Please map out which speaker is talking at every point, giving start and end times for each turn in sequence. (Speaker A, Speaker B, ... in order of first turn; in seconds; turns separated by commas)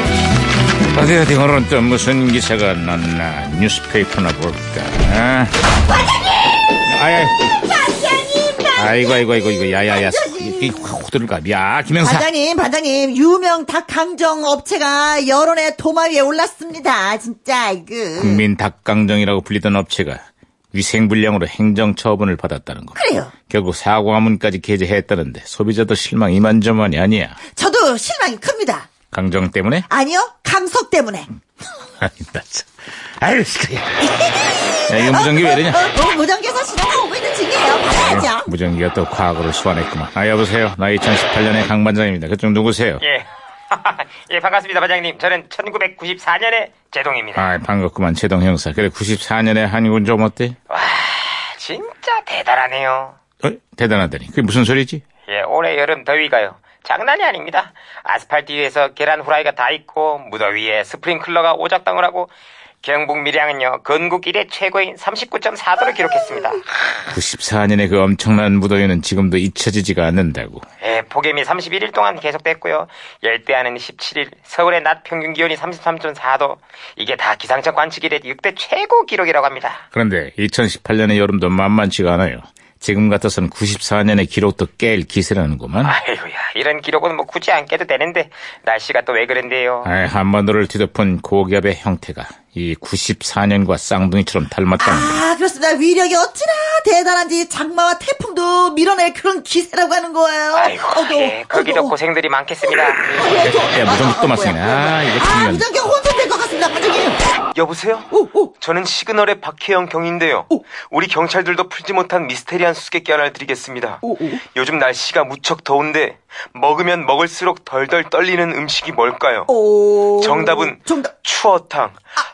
Speaker A: 0.9-5.5, Speaker A: 6.8-7.4, Speaker B: 7.5-10.9, Speaker A: 8.7-12.3, Speaker B: 12.0-18.4, Speaker A: 18.2-20.2, Speaker A: 20.7-23.0, Speaker B: 22.9-23.3, Speaker A: 23.5-27.4, Speaker B: 27.6-28.9, Speaker A: 29.1-29.9, Speaker B: 29.9-31.3, Speaker A: 32.0-34.0, Speaker B: 34.0-38.5, Speaker A: 34.9-35.9, Speaker A: 37.9-43.0, Speaker C: 43.0-47.5, Speaker A: 47.4-50.5, Speaker C: 50.7-53.1, Speaker A: 53.4-55.0, Speaker C: 55.3-66.6, Speaker A: 67.1-70.6, Speaker C: 70.8-79.8, Speaker A: 79.9-85.9, Speaker C: 85.8-89.9, Speaker A: 89.8-95.2, Speaker B: 94.8-101.9, Speaker C: 100.5-103.3, Speaker B: 102.6-107.2, Speaker A: 103.7-105.7, Speaker C: 107.5-108.1, Speaker B: 108.1-108.5, Speaker C: 108.6-119.5, Speaker B: 114.0-114.4, Speaker B: 119.5-121.1, Speaker C: 120.2-121.9